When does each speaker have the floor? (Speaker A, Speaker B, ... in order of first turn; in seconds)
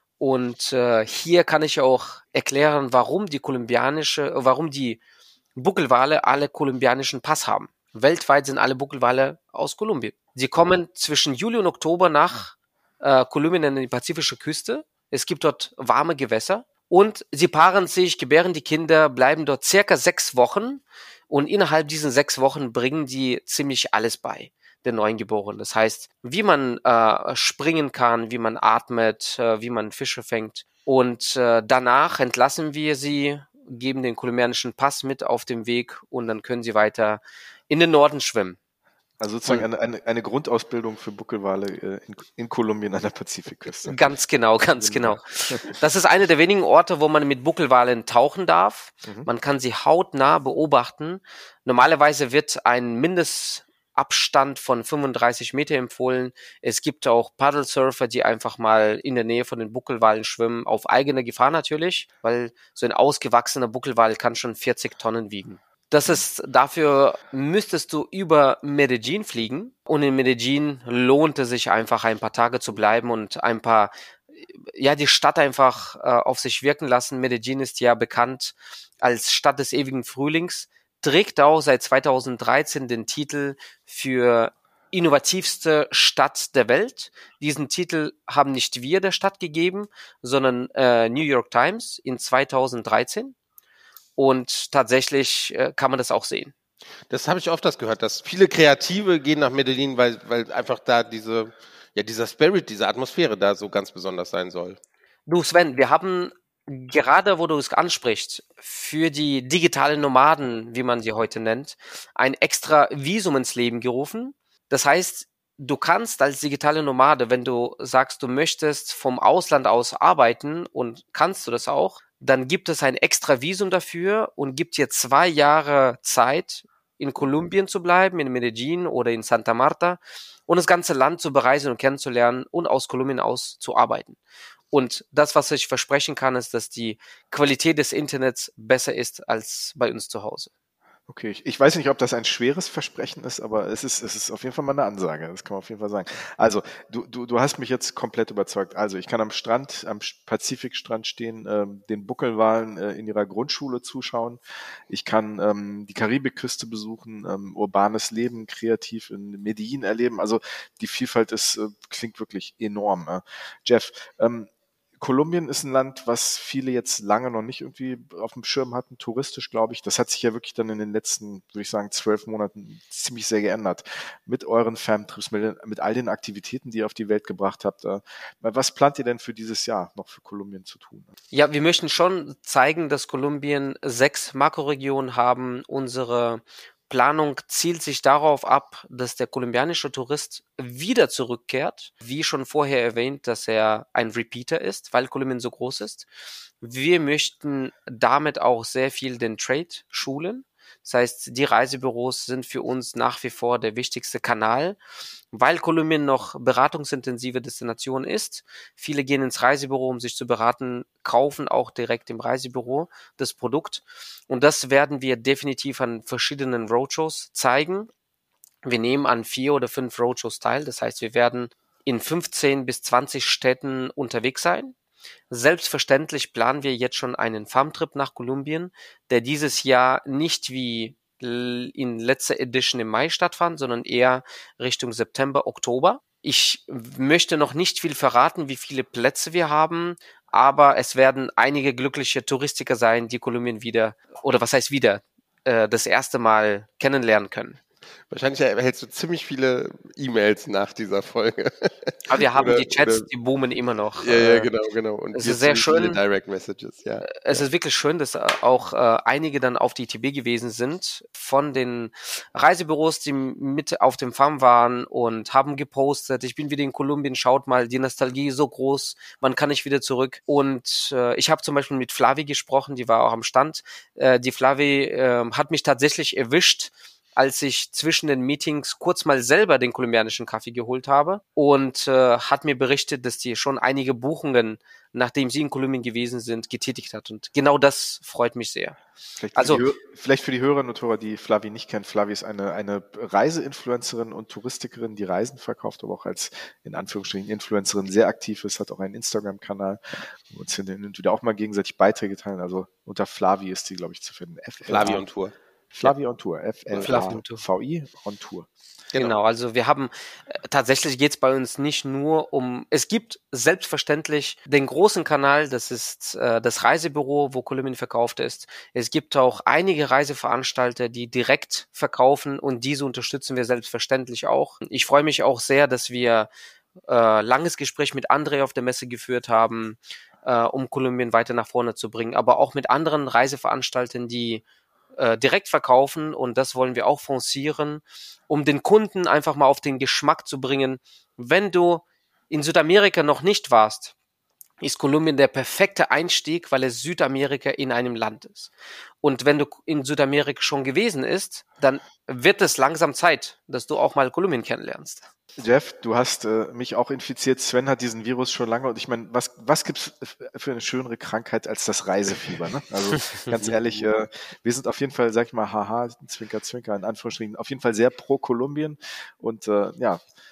Speaker A: 0.2-5.0, 5.6-38.6, 43.9-73.9, 74.8-93.3, 94.2-96.5, 105.3-134.2, 134.7-140.5, 181.3-196.1, 196.6-204.8, 205.3-217.9, 218.6-224.7, 225.3-247.6, 252.1-254.5, 255.2-256.0, 257.1-288.8, 289.4-289.6, 306.8-307.4, 309.0-309.9, 310.4-326.3, 326.9-334.4, 335.0-343.9, 344.6-348.5, 349.0-355.1
Speaker B: 39.2-44.2, 44.8-45.7, 141.1-164.5, 165.0-181.1, 289.2-305.1, 305.7-308.5, 355.4-370.0
Speaker C: 97.1-104.8, 248.1-253.1, 254.0-257.4, 304.7-305.3